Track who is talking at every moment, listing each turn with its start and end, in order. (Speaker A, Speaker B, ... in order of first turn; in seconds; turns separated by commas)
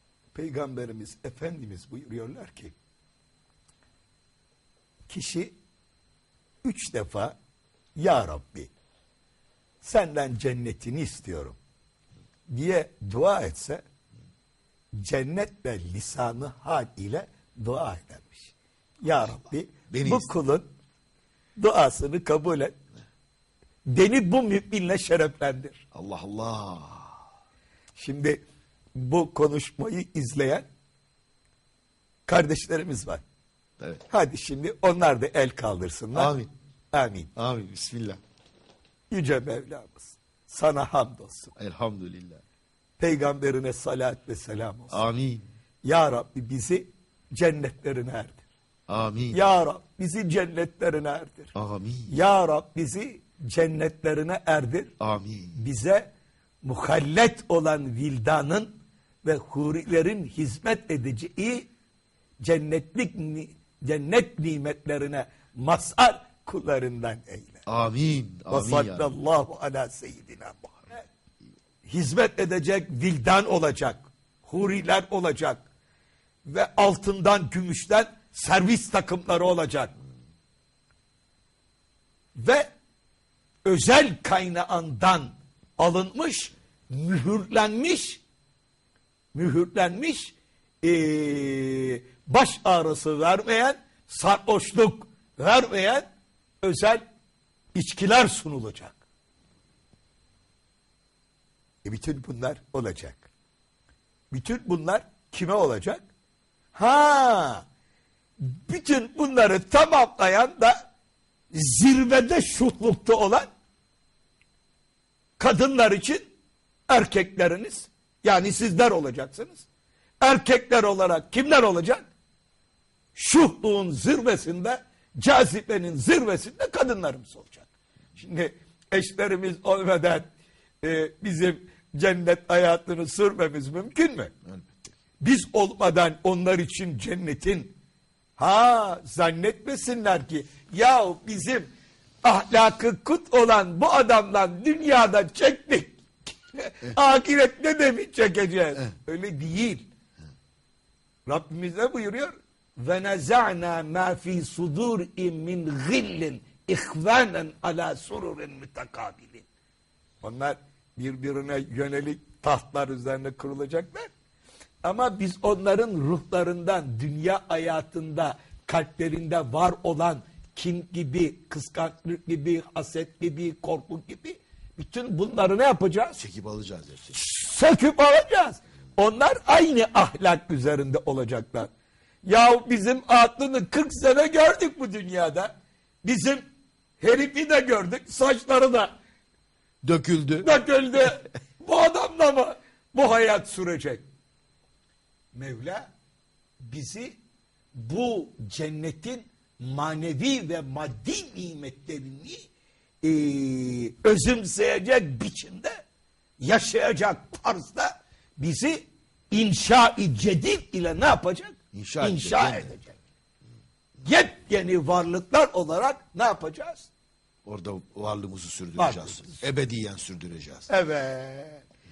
Speaker A: 0.3-2.8, Speaker A: 5.1-5.5, Speaker A: 6.6-7.3, Speaker A: 8.0-8.7, Speaker A: 9.8-11.6, Speaker A: 12.5-13.8, Speaker A: 14.9-20.7, Speaker B: 19.9-20.3, Speaker A: 21.6-22.8, Speaker A: 23.9-25.8, Speaker B: 25.9-27.2, Speaker A: 28.0-28.4, Speaker A: 29.0-30.7, Speaker A: 32.3-33.2, Speaker A: 34.1-36.3, Speaker B: 36.1-36.5, Speaker A: 36.9-37.3, Speaker B: 37.4-38.2, Speaker A: 39.1-41.5, Speaker B: 41.6-42.4, Speaker A: 43.0-45.0, Speaker B: 44.9-45.5, Speaker A: 45.8-48.4, Speaker B: 48.9-49.4, Speaker A: 49.3-51.5, Speaker B: 51.5-52.1, Speaker A: 52.1-54.9, Speaker B: 55.0-55.6, Speaker A: 55.6-56.1, Speaker A: 56.6-58.7, Speaker A: 59.2-61.7, Speaker A: 62.4-67.6, Speaker B: 67.7-69.1, Speaker A: 68.5-71.1, Speaker A: 71.8-75.7, Speaker A: 76.5-79.9, Speaker A: 82.4-82.7, Speaker A: 83.7-88.2, Speaker A: 89.3-96.1, Speaker A: 96.6-97.0, Speaker A: 97.8-99.0, Speaker A: 101.8-103.3, Speaker A: 104.3-106.0, Speaker A: 106.8-107.7, Speaker A: 108.4-110.9, Speaker A: 111.5-113.5, Speaker A: 115.4-116.3, Speaker A: 116.9-119.7, Speaker A: 120.2-122.1, Speaker A: 123.2-130.3, Speaker A: 130.8-134.3, Speaker B: 134.5-134.8, Speaker A: 135.2-137.7, Speaker A: 138.4-141.7, Speaker A: 142.2-146.0, Speaker A: 146.5-149.9, Speaker A: 151.3-159.5, Speaker A: 160.2-164.1, Speaker A: 164.8-176.2, Speaker B: 176.2-177.2, Speaker A: 177.1-181.7, Speaker A: 182.2-185.5, Speaker A: 186.0-186.4, Speaker A: 187.0-188.9, Speaker B: 189.8-190.5, Speaker A: 190.4-194.0, Speaker A: 195.3-195.9, Speaker A: 196.6-197.2, Speaker A: 197.8-202.4, Speaker A: 203.0-205.8, Speaker A: 206.4-213.0, Speaker B: 211.7-212.7, Speaker A: 214.0-216.9, Speaker B: 217.5-220.7, Speaker A: 218.8-219.4, Speaker A: 220.7-221.6